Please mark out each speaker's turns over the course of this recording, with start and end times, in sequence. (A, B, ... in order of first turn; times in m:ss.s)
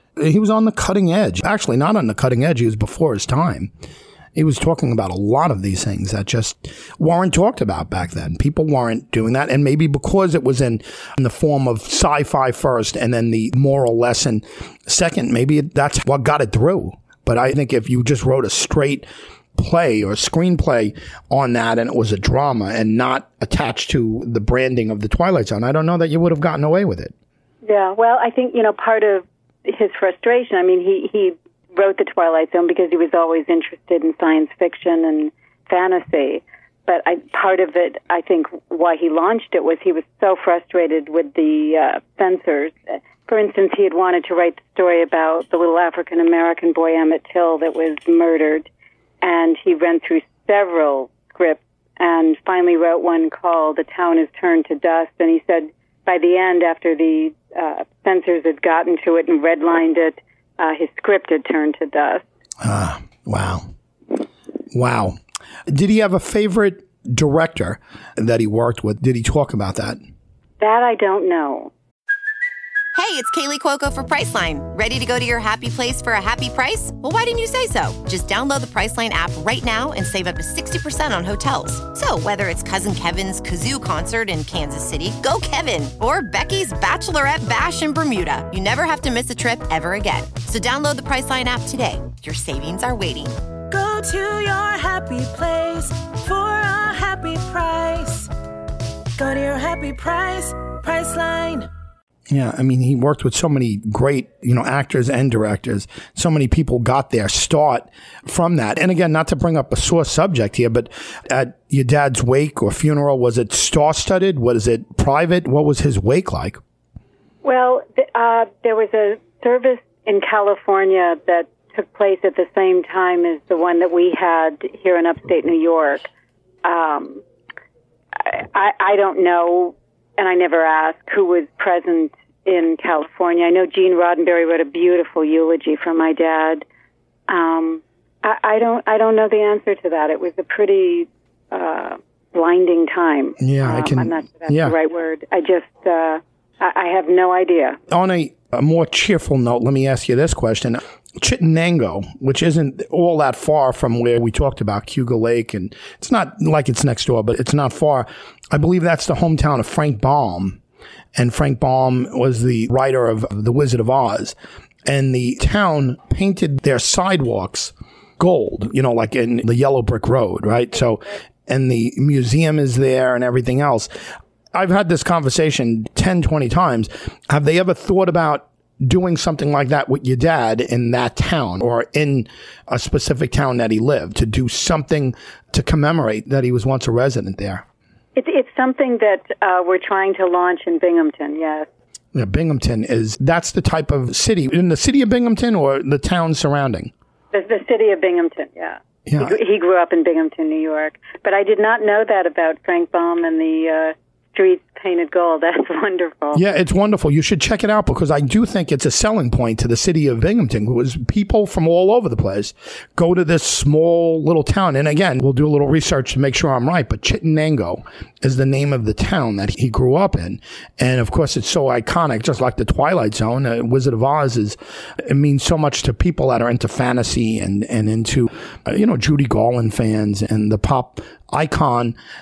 0:00.2-0:03.7 A
0:04.3-0:27.1 A
0:27.6-0:48.7 B
0:49.2-1:02.2 B
1:02.6-1:03.7 A
1:04.7-1:05.2 A
1:05.7-1:10.0 A
1:10.6-1:11.7 B
1:12.9-1:33.4 C
1:33.7-1:38.3 D
1:39.2-1:41.7 D
1:42.3-1:56.6 A
1:57.4-2:06.1 B
2:06.6-2:07.2 B
2:08.2-2:16.6 B
2:17.3-2:27.8 B
2:23.4-2:24.7 A
2:27.9-2:40.6 A
2:41.1-2:53.9 A
2:54.5-3:07.6 A
3:08.2-3:11.7 B
3:12.1-3:16.9 A
3:17.3-3:26.4 B
3:19.0-3:19.4 A
3:26.3-3:52.0 A